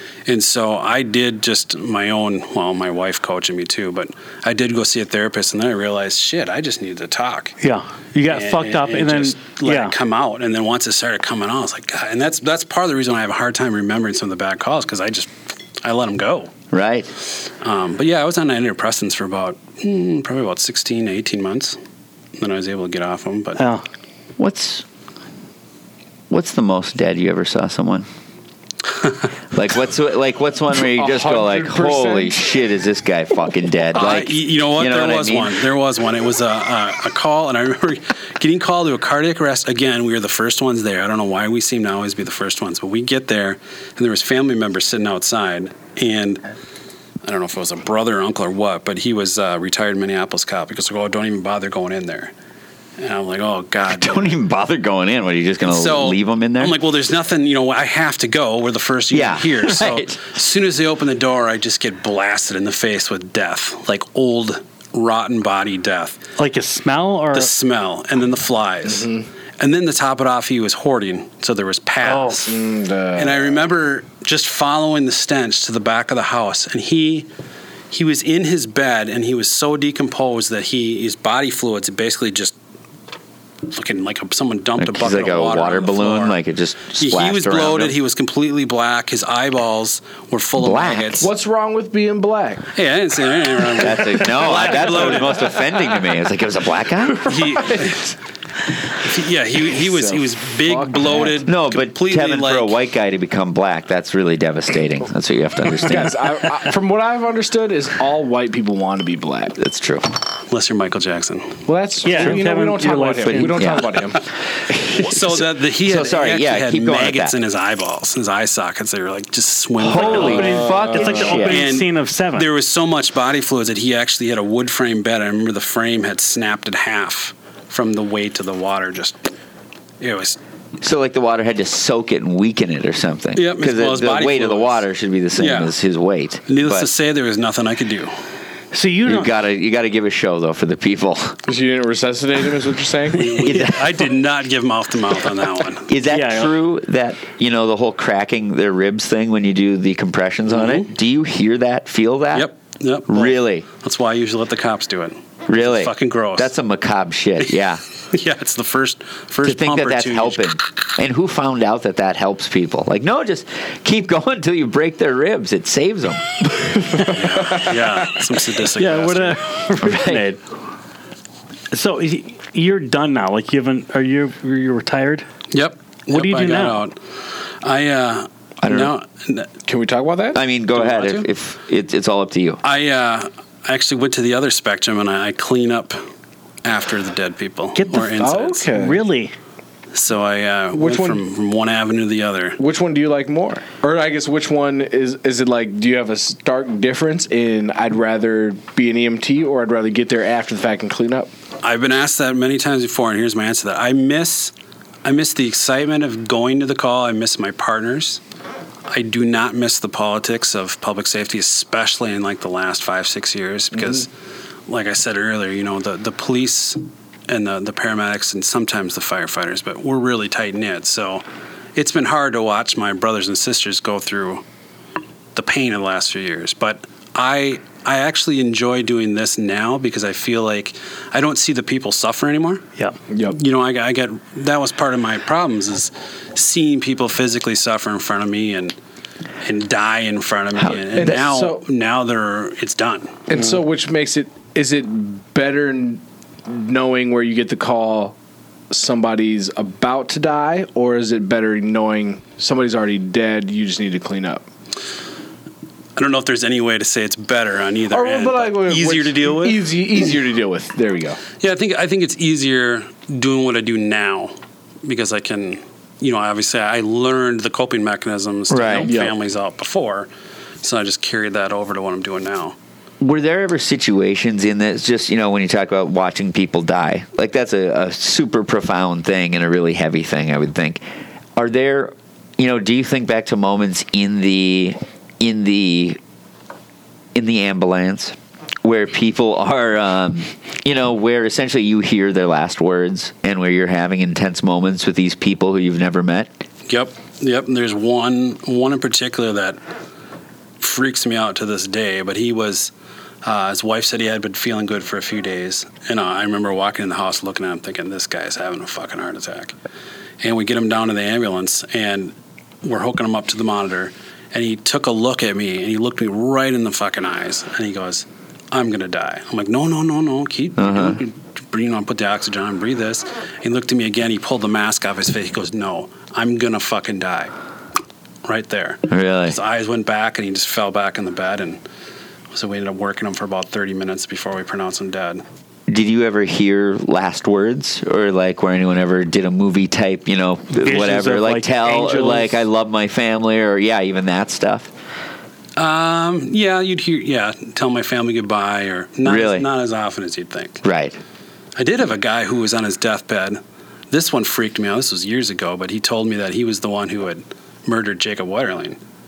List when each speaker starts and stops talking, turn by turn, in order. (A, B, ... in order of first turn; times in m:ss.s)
0:00.2-0:07.6 A
0:07.6-0:09.9 B
0:08.3-0:16.5 A
0:16.7-0:17.1 C
0:17.4-0:21.8 A
0:22.4-0:23.6 A
0:23.6-0:23.8 B
0:24.4-0:24.8 C
0:26.3-0:28.1 C
0:29.5-0:35.6 C
0:30.7-0:32.4 D
0:33.9-0:46.4 A
0:47.2-0:52.3 A
0:53.0-0:54.4 A
0:53.9-0:56.8 C
0:55.6-1:06.2 A
0:59.1-1:00.3 C
1:06.4-1:07.5 B
1:07.3-1:09.1 A
1:08.9-1:09.3 D
1:09.6-1:12.6 A
1:12.0-1:12.4 B
1:12.5-1:13.6 D
1:13.2-1:17.3 A
1:17.9-1:22.6 A
1:23.7-1:26.4 A
1:24.8-1:28.0 C
1:27.0-1:31.3 A
1:30.6-1:31.3 C
1:31.2-1:32.7 D
1:32.7-1:35.6 A
1:33.8-1:37.4 C
1:37.2-1:38.1 D
1:37.2-1:38.1 A
1:39.0-1:42.8 A
1:39.8-1:41.4 D
1:41.4-1:46.2 C
1:45.7-1:49.6 D
1:49.6-1:50.1 C
1:50.5-1:51.6 A
1:51.7-1:54.2 D
1:52.0-1:53.6 B
1:53.3-1:54.1 C
1:54.7-1:57.3 C
1:55.0-2:00.6 A
1:59.8-2:01.6 C
1:59.9-2:02.5 B
2:00.2-2:01.4 D
2:01.4-2:09.2 A
2:10.0-2:10.4 A
2:10.8-2:16.9 C
2:13.4-2:14.8 A
2:15.4-2:15.7 A
2:16.5-2:18.1 A
2:18.7-2:19.3 B
2:19.0-2:21.4 C
2:21.5-2:23.4 D
2:23.2-2:25.9 A
2:23.4-2:24.1 C
2:25.9-2:32.5 C
2:26.1-2:26.5 B
2:30.5-2:30.9 A
2:32.3-2:36.5 A
2:33.1-2:33.7 C
2:35.5-2:37.8 C
2:37.4-2:40.5 A
2:39.4-2:46.7 C
2:47.0-2:47.8 D
2:47.0-2:49.4 A
2:48.8-2:50.4 B
2:49.8-2:50.2 C
2:51.7-2:55.3 B
2:55.5-2:57.0 A
2:56.1-2:56.8 B
2:57.6-2:59.5 A
2:58.6-2:58.9 C
2:59.6-3:00.4 D
3:00.3-3:02.6 C
3:00.7-3:01.3 A
3:02.6-3:06.0 A
3:06.6-3:08.7 A
3:07.8-3:08.2 B
3:08.2-3:09.0 D
3:08.7-3:09.4 B
3:09.9-3:12.6 A
3:10.7-3:11.2 D
3:12.6-3:21.3 D
3:21.6-3:28.2 A
3:28.9-3:34.1 A
3:34.7-3:44.4 A
3:45.4-3:52.7 A
3:53.1-3:53.4 D
3:53.3-3:58.8 A
3:59.4-4:03.5 A
4:00.9-4:01.6 D
4:03.3-4:08.2 D
4:08.7-4:14.4 D
4:16.0-4:19.6 A
4:17.9-4:21.2 D
4:21.4-4:30.1 A
4:28.5-4:28.9 C
4:28.8-4:29.2 D
4:30.6-4:32.6 A
4:33.0-4:40.8 C
4:41.4-4:46.0 C
4:47.2-4:56.3 C
4:56.7-4:59.6 A
5:00.6-5:09.6 A
5:10.2-5:27.3 A
5:20.6-5:21.0 C
5:28.2-5:31.6 A
5:28.9-5:29.4 C
5:32.3-5:35.2 A
5:35.7-5:44.7 C
5:40.5-5:42.4 B
5:45.6-5:50.6 A
5:49.0-5:49.5 C
5:50.6-5:51.0 C
5:51.6-5:53.4 A
5:53.9-5:58.8 A